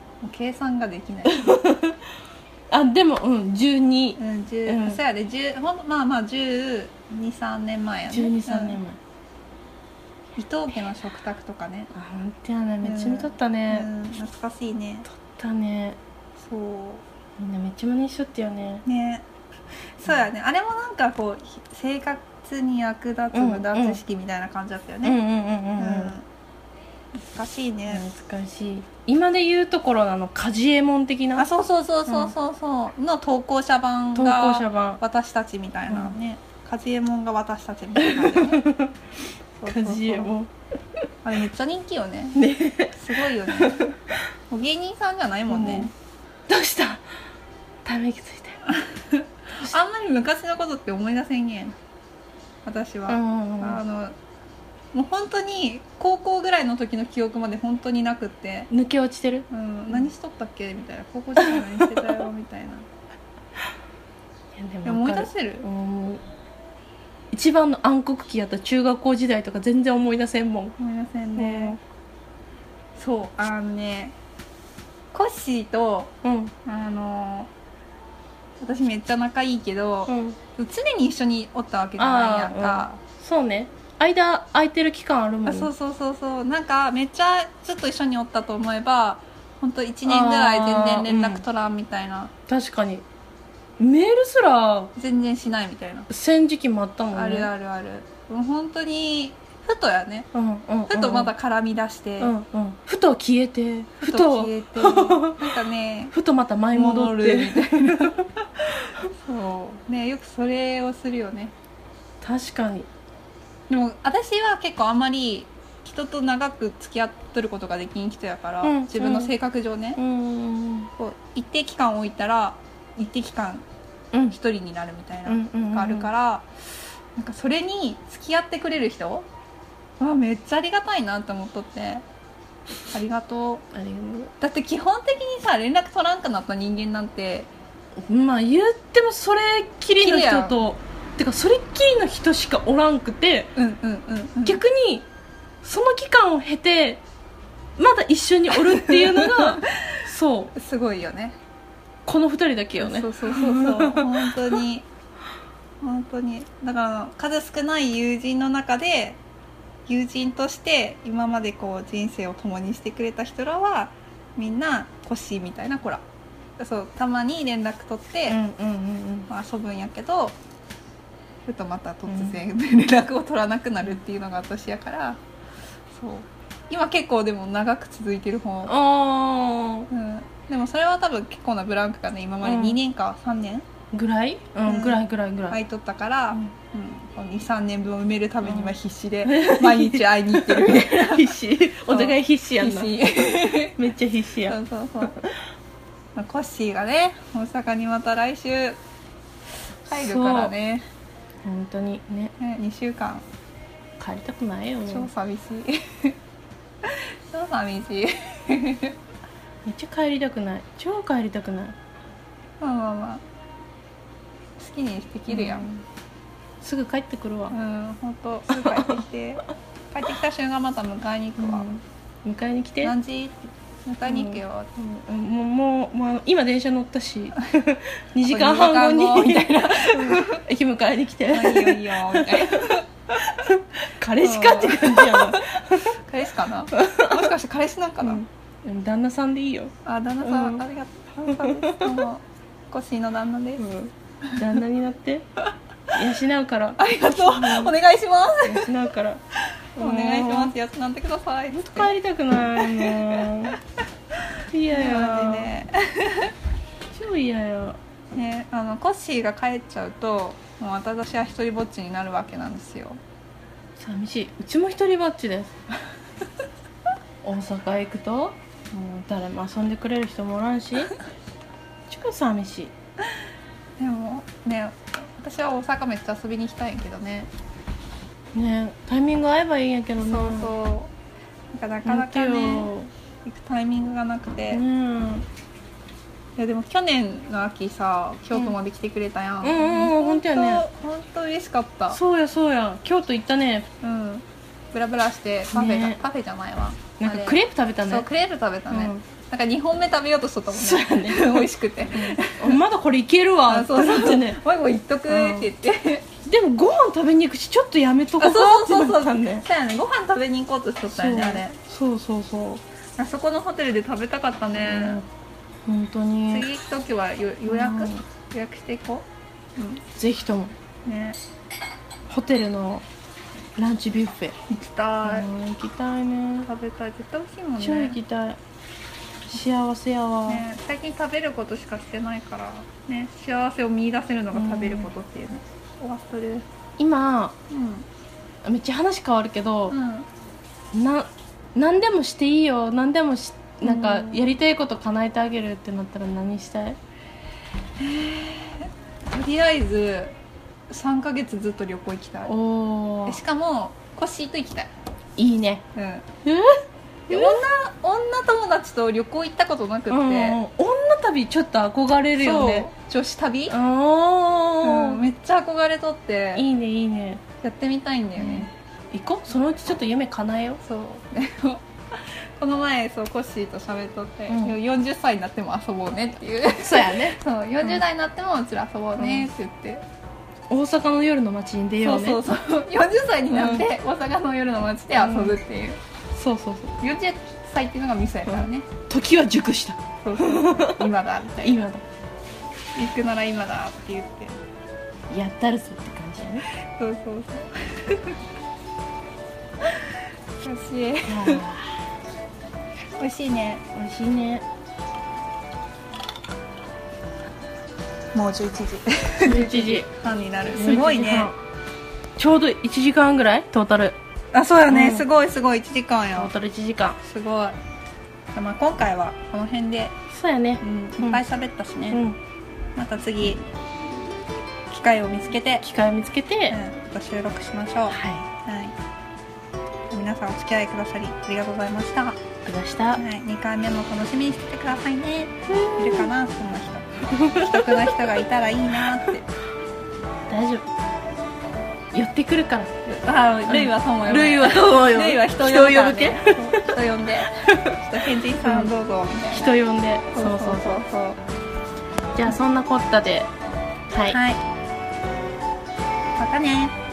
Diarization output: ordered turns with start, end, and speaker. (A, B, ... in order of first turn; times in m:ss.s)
0:00.2-0:01.5 A
0:01.2-0:02.0 B
0:02.7-0:05.0 B
0:04.2-0:08.8 A
0:08.1-0:09.0 B
0:10.4-0:11.9 A
0:11.9-0:13.9 B
0:12.8-0:15.0 A
0:15.1-0:16.0 B
0:16.4-0:17.0 A
0:17.4-0:18.8 B
0:18.8-0:19.2 A
0:20.0-0:25.2 A
0:23.3-0:24.0 B
0:25.0-0:26.1 B
0:25.8-0:26.2 A
0:27.1-0:28.1 A
0:27.9-0:31.5 B
0:31.4-0:38.6 A
0:32.1-0:32.3 B
0:34.1-0:35.0 B
0:38.0-0:38.9 B
0:39.6-0:40.3 A
0:39.7-0:40.5 B
0:41.2-0:42.4 A
0:42.3-0:44.2 B
0:42.9-0:43.9 A
0:44.5-0:45.9 A
0:45.5-0:45.9 B
0:46.5-0:47.0 B
0:47.8-0:48.6 B
0:48.7-0:51.8 A
0:52.6-0:54.2 A
0:53.1-0:53.8 B
0:54.9-0:58.7 A
0:58.7-1:00.1 B
0:59.5-1:02.9 A
1:01.4-1:02.1 B
1:04.5-1:06.2 B
1:04.8-1:05.6 A
1:07.3-1:10.8 B
1:10.8-1:11.8 A
1:11.4-1:11.8 B
1:13.0-1:14.2 A
1:15.1-1:16.1 A
1:16.2-1:16.5 B
1:16.6-1:17.5 A
1:18.6-1:23.0 A
1:20.1-1:20.4 B
1:22.0-1:25.7 B
1:25.4-1:32.3 A
1:30.0-1:31.4 B
1:32.5-1:33.0 B
1:33.8-1:34.9 B
1:35.0-1:36.1 A
1:36.1-1:37.5 B
1:37.1-1:40.3 A
1:40.3-1:41.3 B
1:40.9-1:42.3 A
1:42.2-1:45.6 B
1:44.0-1:46.1 A
1:46.1-1:48.2 B
1:46.7-1:48.4 A
1:49.2-1:51.5 A
1:52.2-1:52.9 B
1:53.7-2:00.0 A
1:58.6-1:59.3 B
2:00.0-2:00.9 B
2:01.0-2:03.6 A
2:04.3-2:06.4 A
2:05.3-2:06.1 B
2:07.2-2:09.3 A
2:10.0-2:12.0 A
2:12.9-2:13.6 A
2:13.7-2:14.3 B
2:14.4-2:17.5 A
2:18.0-2:23.5 B
2:20.0-2:20.6 A
2:23.6-2:24.6 A
2:24.4-2:25.1 B
2:25.6-2:27.0 B
2:27.8-2:30.5 B
2:28.5-2:31.4 A
2:32.0-2:34.3 B
2:32.8-2:34.9 A
2:35.8-2:39.2 A
2:39.9-2:46.0 A
2:46.6-2:48.4 A
2:48.3-2:49.3 B
2:49.3-2:50.4 A
2:51.5-2:55.2 A
2:52.1-2:52.4 B
2:55.9-2:58.7 A
2:58.7-2:59.9 B
2:59.9-3:03.6 A
3:02.4-3:02.8 B
3:03.9-3:05.6 B
3:04.7-3:13.8 A
3:08.4-3:08.7 B
3:09.2-3:13.0 B
3:13.6-3:15.4 B
3:14.4-3:15.2 A
3:16.2-3:18.8 A
3:19.8-3:20.5 B
3:19.9-3:20.8 A
3:21.4-3:22.3 B
3:22.4-3:23.2 A
3:24.0-3:25.1 B
3:24.9-3:26.2 A
3:26.8-3:29.0 A
3:29.6-3:31.8 B
3:32.6-3:33.2 A
3:34.6-3:35.7 A
3:35.3-3:35.8 B
3:36.6-3:37.5 B
3:37.5-3:41.6 A
3:38.5-3:39.0 B
3:41.4-3:42.9 B
3:42.8-3:44.7 A
3:44.1-3:55.9 B
3:48.2-3:50.4 A
3:51.3-3:52.8 A
3:54.2-3:58.2 A
3:56.7-3:57.3 B
3:58.0-4:00.6 B
3:59.8-4:03.7 A
4:01.2-4:02.0 B
4:03.6-4:05.3 B
4:05.9-4:07.7 B
4:06.8-4:08.7 A
4:08.4-4:09.2 B
4:09.8-4:13.5 A
4:09.8-4:10.5 B
4:11.5-4:13.5 B
4:14.5-4:15.5 B
4:14.7-4:16.3 A
4:16.9-4:17.8 B
4:18.1-4:23.0 A
4:23.8-4:25.6 B
4:27.2-4:30.9 B
4:31.9-4:32.7 B
4:33.8-4:37.3 A
4:38.3-4:40.5 B
4:40.0-4:40.9 A
4:41.5-4:42.7 A
4:41.8-4:42.9 B
4:43.2-4:44.6 A
4:44.5-4:45.2 B
4:46.4-4:52.0 A
4:49.4-4:50.6 B
4:51.9-4:53.7 B
4:53.8-5:02.6 A
4:55.5-4:56.0 B
4:57.0-4:58.1 B
4:58.7-4:59.0 B
5:00.5-5:04.4 B
5:03.5-5:06.1 A
5:05.1-5:05.5 B
5:06.2-5:09.4 B
5:08.2-5:11.6 A
5:10.9-5:12.6 B
5:13.0-5:15.0 A
5:14.6-5:15.0 B
5:15.6-5:16.5 B
5:16.3-5:19.8 A
5:17.5-5:18.0 B
5:19.9-5:20.5 B
5:20.8-5:21.2 A
5:22.1-5:22.8 B
5:23.6-5:24.4 B
5:24.5-5:25.3 A
5:25.0-5:26.5 B
5:26.4-5:28.0 A
5:27.6-5:28.4 B
5:29.3-5:30.4 B
5:30.3-5:36.4 A
5:34.3-5:34.9 B
5:36.8-5:37.4 B
5:37.5-5:37.8 A
5:38.4-5:39.8 B
5:39.7-5:40.1 A
5:40.7-5:46.8 B
5:43.6-5:44.2 A
5:47.8-5:50.1 A
5:50.7-5:52.3 A
5:52.2-5:53.2 B
5:53.0-5:54.7 A
5:55.2-5:55.6 B
5:55.7-5:56.0 A
5:56.2-5:57.4 B
5:57.1-6:00.4 A
5:59.9-6:02.7 B
6:02.2-6:03.6 A
6:03.5-6:05.0 B
6:04.6-6:06.4 A
6:06.3-6:07.2 B
6:07.4-6:08.5 A
6:08.2-6:10.6 B
6:10.6-6:11.6 A
6:12.4-6:19.8 A
6:14.3-6:14.6 B
6:16.6-6:17.8 B
6:19.0-6:19.3 B
6:20.5-6:22.2 B
6:21.8-6:25.8 A
6:23.3-6:23.7 B
6:25.0-6:25.4 B
6:26.1-6:26.7 B
6:26.8-6:28.7 A
6:28.3-6:30.9 B
6:30.0-6:31.6 A
6:31.4-6:31.8 B
6:32.8-6:34.3 A
6:35.1-6:36.4 B
6:36.7-6:38.2 A
6:39.6-6:41.6 A
6:41.0-6:41.6 B
6:43.0-6:43.6 A
6:43.7-6:44.4 B
6:48.1-6:51.3 A
6:49.2-6:49.9 B
6:50.5-6:51.4 B
6:52.2-6:54.0 B
6:54.3-6:56.3 A
6:54.7-6:55.0 B
6:56.2-6:57.0 B
6:57.0-6:57.6 A
6:58.3-7:00.0 A
7:00.1-7:01.2 B
7:00.6-7:02.0 A
7:01.9-7:02.2 B
7:02.8-7:03.4 A
7:04.7-7:05.6 A
7:05.6-7:06.6 B
7:06.5-7:08.7 A
7:07.9-7:08.3 B
7:09.9-7:12.2 A
7:12.4-7:13.0 B
7:13.0-7:19.3 A
7:15.5-7:16.1 B
7:17.1-7:18.1 B
7:20.3-7:20.6 B
7:21.9-7:22.7 B
7:22.8-7:29.5 A
7:23.5-7:26.6 B
7:27.4-7:27.8 B
7:28.4-7:28.7 B
7:29.3-7:30.8 B
7:30.1-7:31.2 A
7:32.1-7:33.3 B
7:33.9-7:34.2 B
7:34.1-7:34.4 A
7:36.2-7:36.7 A